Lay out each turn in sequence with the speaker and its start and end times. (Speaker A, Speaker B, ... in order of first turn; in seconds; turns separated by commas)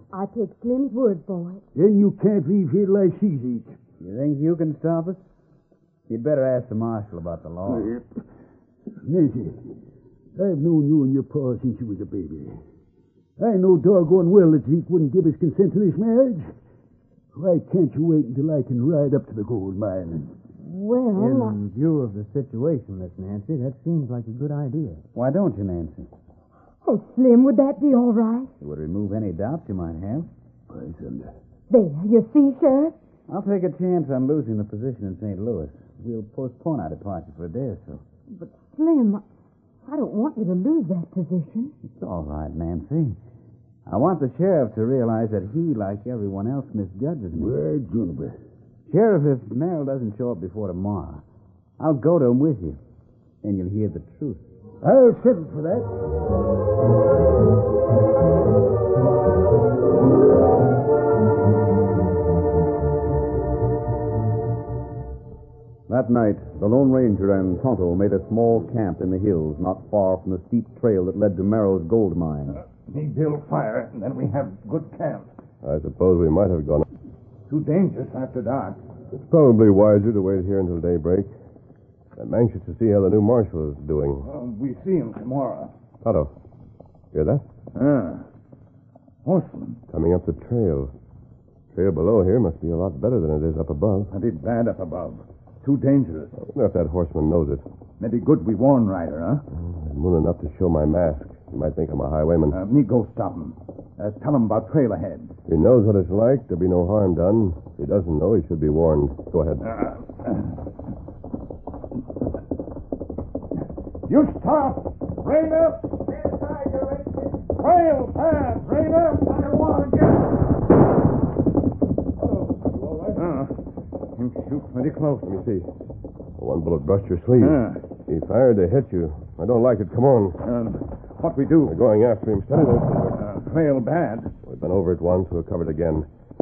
Speaker A: 0.1-1.6, Speaker B: 1.8-3.8, Speaker C: 4.0-5.2, Speaker C: 6.1-7.9, Speaker B: 7.7-8.1, Speaker B: 9.0-9.6, Speaker B: 10.4-12.6, Speaker B: 13.4-16.5, Speaker B: 17.3-20.4, Speaker A: 20.6-21.6, Speaker D: 21.2-25.0, Speaker C: 25.1-26.1, Speaker A: 26.8-28.5, Speaker C: 28.6-30.3, Speaker B: 30.7-31.3, Speaker A: 31.7-33.0, Speaker C: 33.3-38.0, Speaker A: 38.3-39.2, Speaker A: 39.9-41.7, Speaker C: 41.8-43.2, Speaker C: 43.9-47.6, Speaker B: 47.4-48.4, Speaker C: 48.9-51.2, Speaker C: 51.8-52.8, Speaker C: 53.4-54.4, Speaker B: 54.8-55.9, Speaker E: 65.9-72.6, Speaker F: 72.7-75.3, Speaker G: 75.6-76.8, Speaker F: 77.5-78.8, Speaker G: 79.1-81.3, Speaker G: 82.2-84.3, Speaker F: 84.2-85.7, Speaker G: 86.0-86.3, Speaker G: 87.1-87.4, Speaker F: 87.8-88.2, Speaker F: 89.2-89.8, Speaker G: 89.9-90.9, Speaker G: 91.8-94.1, Speaker F: 94.1-96.4, Speaker G: 96.4-97.6, Speaker F: 98.0-99.4, Speaker G: 99.5-102.6, Speaker F: 102.5-105.3, Speaker G: 105.5-109.6, Speaker F: 109.6-110.5, Speaker F: 114.1-116.0, Speaker F: 117.5-119.9, Speaker F: 122.8-123.5, Speaker F: 124.2-125.4, Speaker G: 125.2-125.7, Speaker G: 126.4-130.4, Speaker F: 127.4-127.8, Speaker F: 130.4-131.8, Speaker G: 131.7-133.2, Speaker F: 132.6-134.3, Speaker G: 134.4-136.1